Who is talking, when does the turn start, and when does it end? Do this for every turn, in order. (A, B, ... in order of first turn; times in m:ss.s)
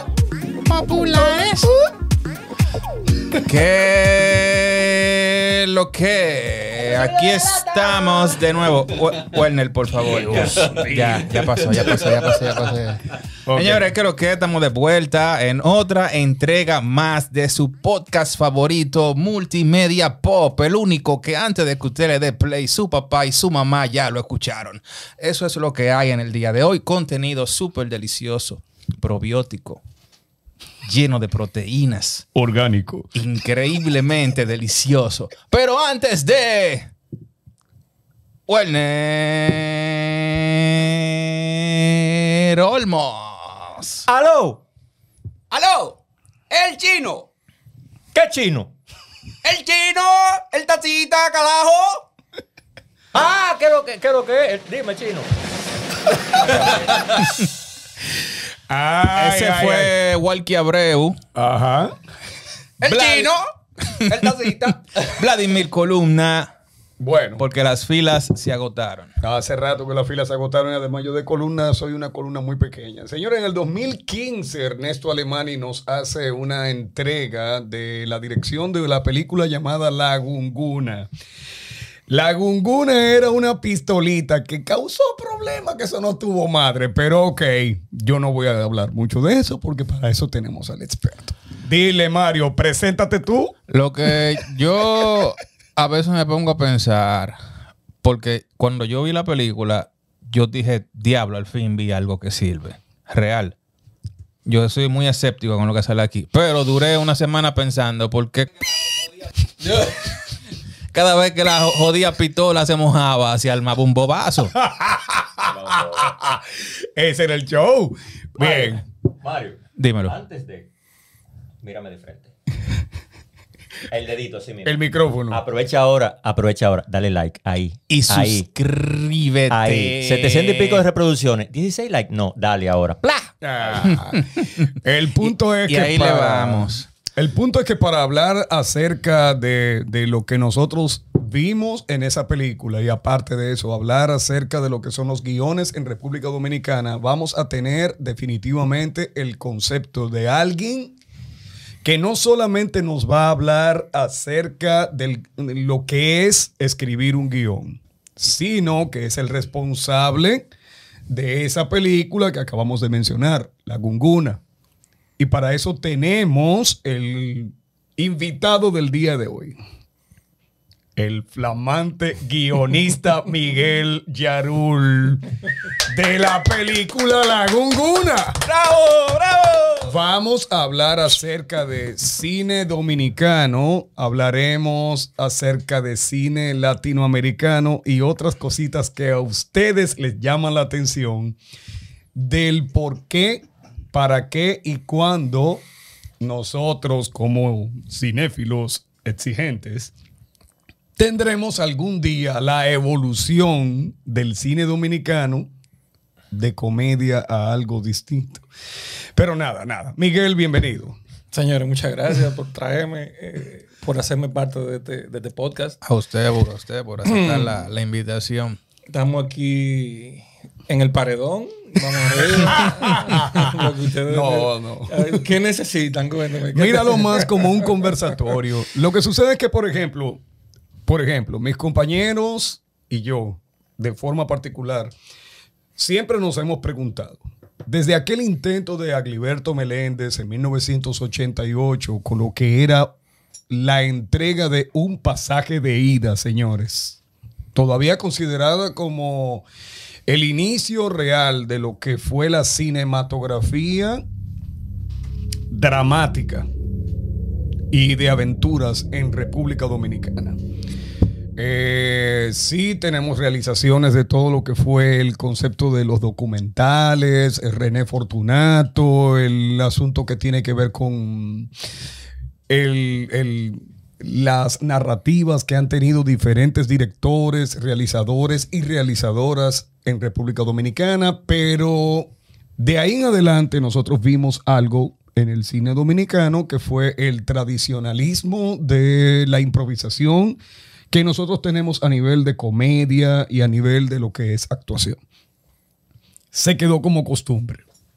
0:00.6-0:01.8 A
0:03.4-0:29.8 A
0:10.3-0:11.2 B
0:13.5-0:13.9 B
0:30.8-0:32.2 A
0:32.4-0:33.1 B
0:33.2-0:36.9 A
0:38.5-0:44.1 A
0:44.1-0:44.6 C
0:45.5-0:46.0 D
0:46.5-0:47.3 D
0:48.1-0:48.7 C
0:49.4-0:52.0 D
0:53.1-0:55.3 C
0:56.4-0:57.0 C
0:58.7-0:59.9 B
0:59.1-1:01.2 A
1:01.4-1:02.0 B
1:02.8-1:05.1 D
1:02.9-1:04.4 A
1:05.0-1:06.5 A
1:07.0-1:07.4 B
1:07.4-1:09.2 A
1:09.2-1:21.1 B
1:22.1-1:33.6 B
1:33.7-1:37.4 A
1:38.0-1:43.6 A
1:44.5-1:48.5 A
1:49.6-1:50.1 A
1:50.9-1:54.5 A
1:54.6-1:58.8 B
1:55.4-1:56.1 C
1:59.2-2:00.7 C
1:59.8-2:00.2 A
2:01.6-2:02.3 C
2:03.9-2:08.5 C
2:04.6-2:05.4 B
2:07.9-2:10.8 A
2:09.5-2:13.8 C
2:13.4-2:31.0 B
2:14.2-2:14.4 A
2:15.7-2:16.9 A
2:31.8-2:40.5 B
2:41.1-2:44.4 B
2:45.2-2:49.6 B
2:51.0-2:58.4 B
2:58.5-2:59.8 A
2:59.9-3:11.4 B
3:12.2-3:15.6 B
3:16.2-3:19.9 B
3:21.0-3:25.5 B
3:26.3-3:28.4 B
3:29.2-3:31.0 B
3:31.3-3:35.8 E
3:35.8-3:38.6 A
3:37.0-3:37.7 E
3:38.9-3:47.9 E
3:42.5-3:45.3 B
3:46.5-3:50.2 B
3:50.9-3:54.9 B
3:55.8-4:03.0 B
4:03.5-4:07.0 B
4:07.6-4:09.5 B
4:10.1-4:14.0 B
4:15.5-4:16.5 B
4:17.7-4:20.4 B
4:21.4-4:31.5 B
4:32.5-4:50.4 B
4:50.9-4:55.0 B
4:56.3-4:57.6 B